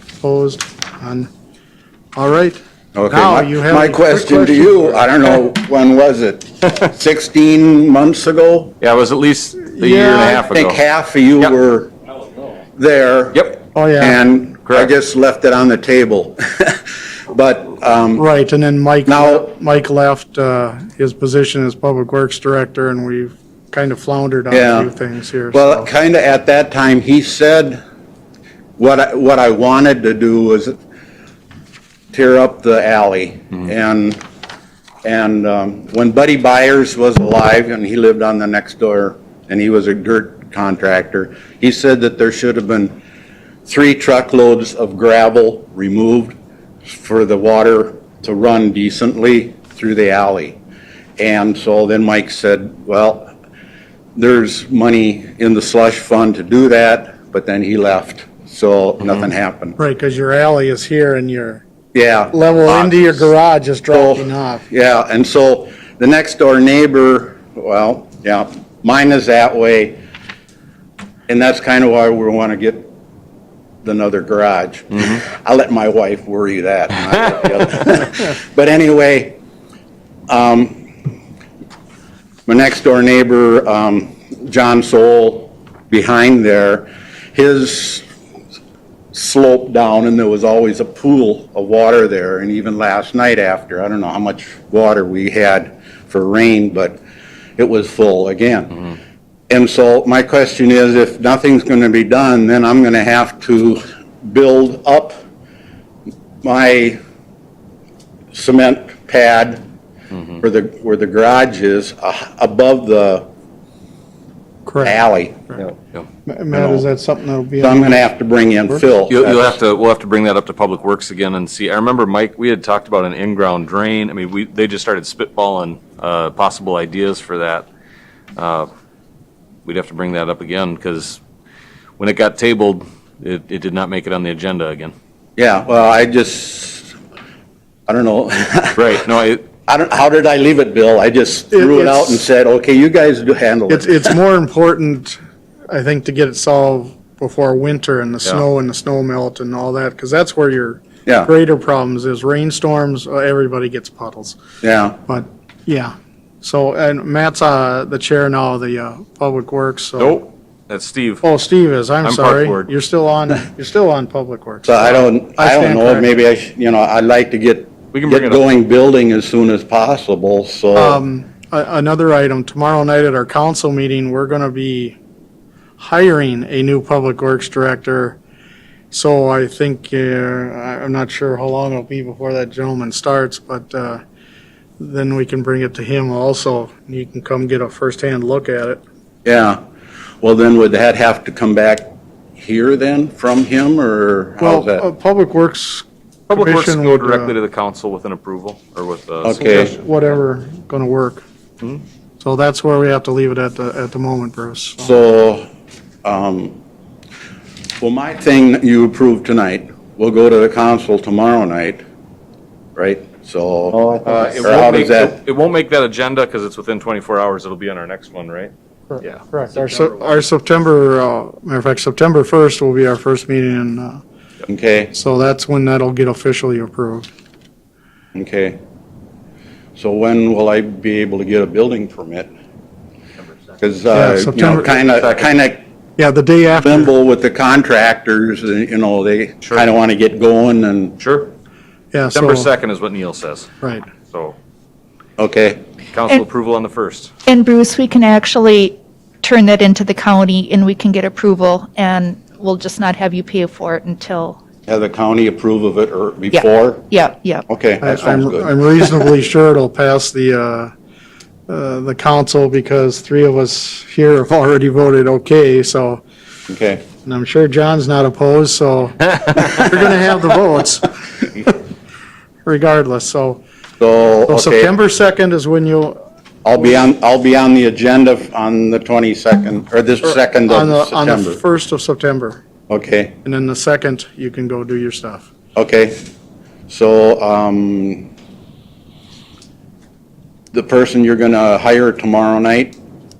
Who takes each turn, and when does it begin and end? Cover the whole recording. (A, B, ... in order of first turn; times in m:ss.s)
0:00.2-0:01.3 A
0:02.1-0:05.0 A
0:02.9-0:08.7 B
0:08.8-0:10.8 C
0:09.7-0:10.4 A
0:10.3-0:11.9 B
0:12.8-0:18.2 B
0:13.7-0:14.2 A
0:18.2-0:25.9 A
0:19.0-0:19.5 B
0:24.5-0:24.9 B
0:25.5-0:27.8 B
0:28.8-0:30.8 B
0:32.1-0:34.2 B
0:35.0-0:43.0 B
0:43.6-0:50.6 B
0:51.2-0:53.3 B
0:54.2-0:59.8 B
0:59.8-1:01.6 A
1:01.9-1:03.2 B
1:02.3-1:04.6 A
1:03.9-1:10.0 B
1:11.3-1:12.9 B
1:13.8-1:19.4 B
1:20.3-1:20.9 B
1:22.4-1:28.0 B
1:29.1-1:37.0 B
1:37.6-1:38.9 B
1:39.5-1:45.2 B
1:46.4-1:47.0 B
1:48.3-1:49.6 B
1:50.4-1:53.2 B
1:54.6-1:55.0 A
1:54.8-1:55.6 B
1:56.2-1:58.1 A
1:56.5-1:56.8 B
1:57.6-1:59.6 B
1:59.1-2:07.7 C
2:08.4-2:08.7 C
2:09.6-2:11.2 C
2:12.0-2:14.9 C
2:15.4-2:16.9 B
2:17.9-2:19.0 B
2:18.8-2:19.4 C
2:19.7-2:24.1 B
2:21.5-2:22.2 A
2:23.7-2:25.2 A
2:25.7-2:34.4 A
2:34.6-2:35.0 B
2:35.0-2:40.2 A
2:40.0-2:41.2 C
2:41.2-2:46.1 A
2:42.0-2:42.7 C
2:44.6-2:51.0 B
2:47.9-2:48.4 C
2:50.7-2:55.0 A
2:55.8-2:58.2 A
2:58.9-3:04.0 A
3:04.8-3:08.8 A
3:09.2-3:09.6 B
3:10.2-3:14.8 B
3:14.4-3:17.3 A
3:16.3-3:19.4 C
3:19.2-3:19.7 B
3:19.3-3:21.2 A
3:22.2-3:25.0 A
3:24.8-3:25.5 B
3:26.0-3:26.6 B
3:27.8-3:31.8 B
3:32.7-3:35.2 B
3:33.7-3:38.5 C
3:38.9-3:44.0 A
3:39.0-3:40.1 C
3:44.5-3:44.9 B
3:44.9-3:47.1 A
3:48.1-3:48.6 B
3:49.8-3:52.3 B
3:53.6-3:55.6 B
3:53.9-3:54.8 A
3:56.0-3:56.9 A
3:56.5-4:01.0 B
4:01.0-4:01.3 C
4:01.9-4:02.5 A
4:02.1-4:03.5 C
4:03.6-4:03.8 A
4:04.1-4:04.4 C
4:05.2-4:05.6 B
4:05.9-4:07.1 C
4:07.2-4:14.4 D
4:14.7-4:16.9 B
4:16.3-4:17.4 D
4:17.5-4:19.0 B
4:17.8-4:20.7 A
4:21.5-4:26.0 A
4:26.5-4:26.8 B
4:27.0-4:31.6 A
4:32.4-4:33.4 A
4:33.8-4:34.7 B
4:34.3-4:36.0 A
4:36.4-4:41.4 B
4:40.0-4:42.4 A
4:42.7-4:43.2 B
4:43.2-4:45.3 A
4:45.6-4:46.1 B
4:46.7-4:48.1 B
4:50.5-4:52.8 B